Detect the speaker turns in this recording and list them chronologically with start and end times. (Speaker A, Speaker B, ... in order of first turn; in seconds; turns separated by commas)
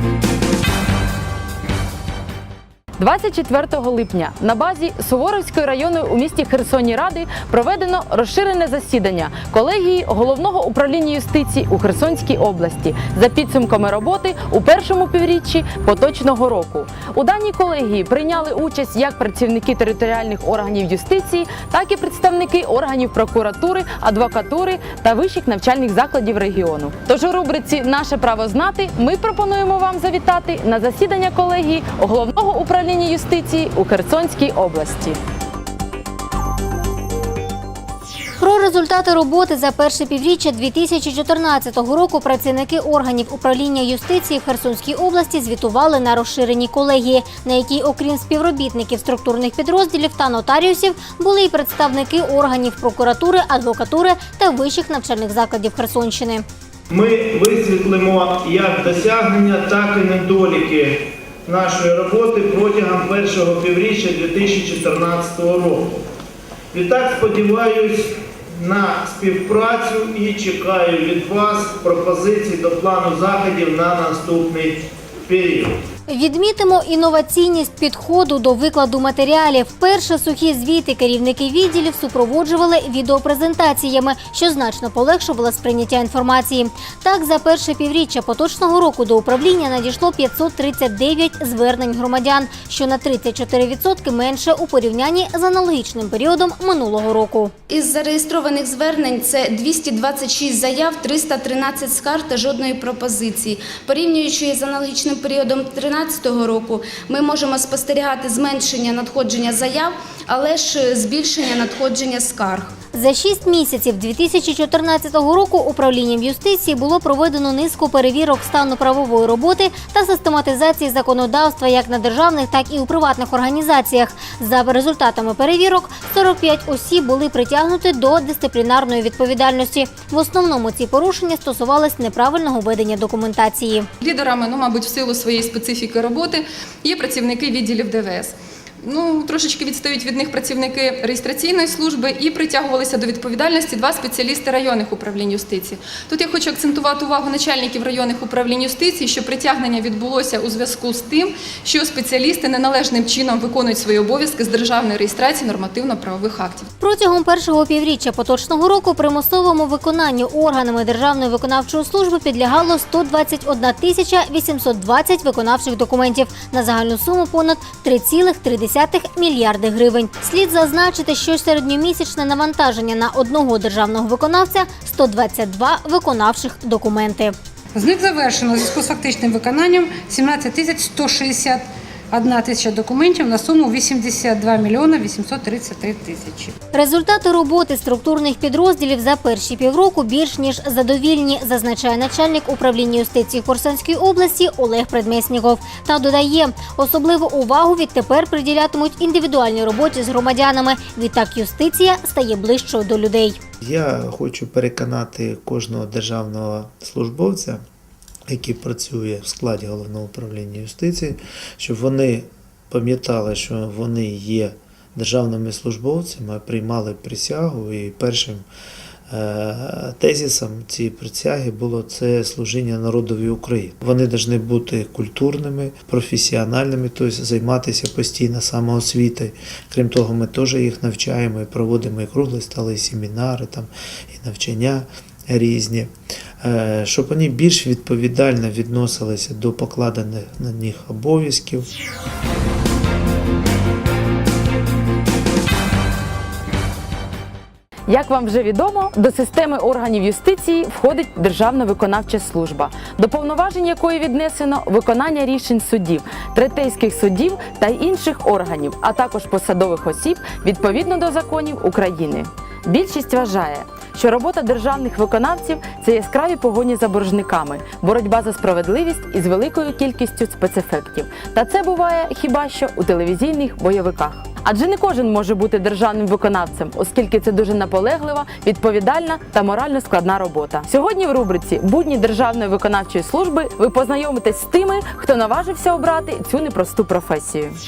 Speaker A: 3.0-35.2, Speaker B: 38.4-56.5, Speaker C: 56.9-65.9, Speaker C: 66.7-75.8, Speaker B: 76.1-97.5, Speaker D: 97.7-112.7, Speaker B: 112.9-133.9, Speaker E: 134.0-156.7, Speaker B: 156.8-177.3, Speaker F: 177.8-186.5, Speaker B: 186.7-203.4, Speaker G: 203.6-207.6, Speaker G: 208.3-218.5, Speaker G: 219.1-241.7, Speaker A: 247.9-287.6